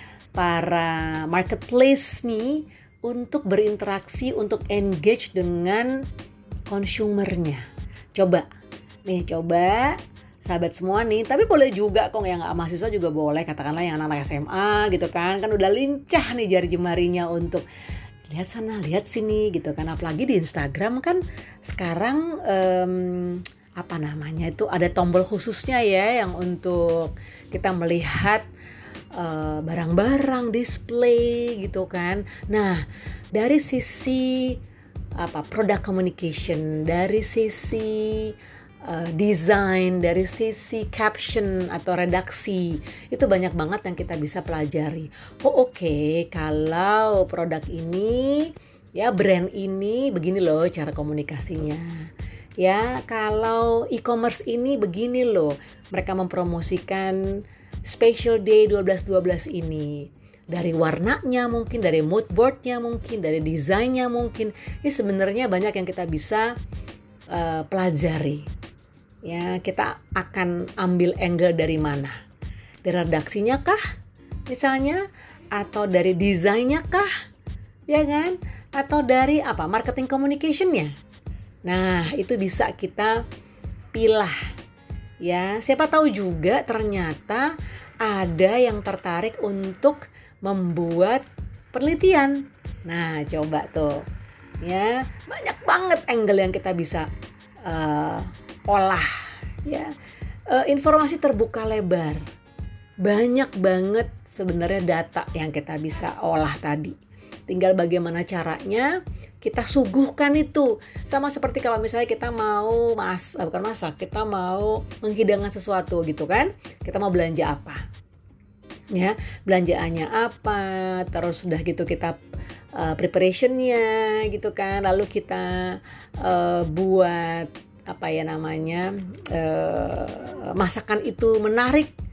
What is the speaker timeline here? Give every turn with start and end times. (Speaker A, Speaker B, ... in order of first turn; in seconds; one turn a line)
Speaker A: 0.3-6.0
Speaker A: 6.7-7.6
Speaker A: 8.1-8.5
Speaker A: 9.1-17.6
Speaker A: 18.3-28.4
Speaker A: 29.1-34.6
Speaker A: 35.2-38.3
Speaker A: 38.9-52.1
Speaker A: 52.6-66.5
Speaker A: 67.3-68.5
Speaker A: 69.2-72.2
Speaker A: 72.8-73.8
Speaker A: 74.5-75.0
Speaker A: 75.5-77.1
Speaker A: 77.9-80.9
Speaker A: 81.7-83.2
Speaker A: 83.9-84.3
Speaker A: 85.2-94.0
Speaker A: 94.6-97.1
Speaker A: 97.6-99.1
Speaker A: 99.6-99.9
Speaker A: 100.5-102.2
Speaker A: 103.0-107.0
Speaker A: 107.5-117.8
Speaker A: 118.9-122.2
Speaker A: 122.8-131.9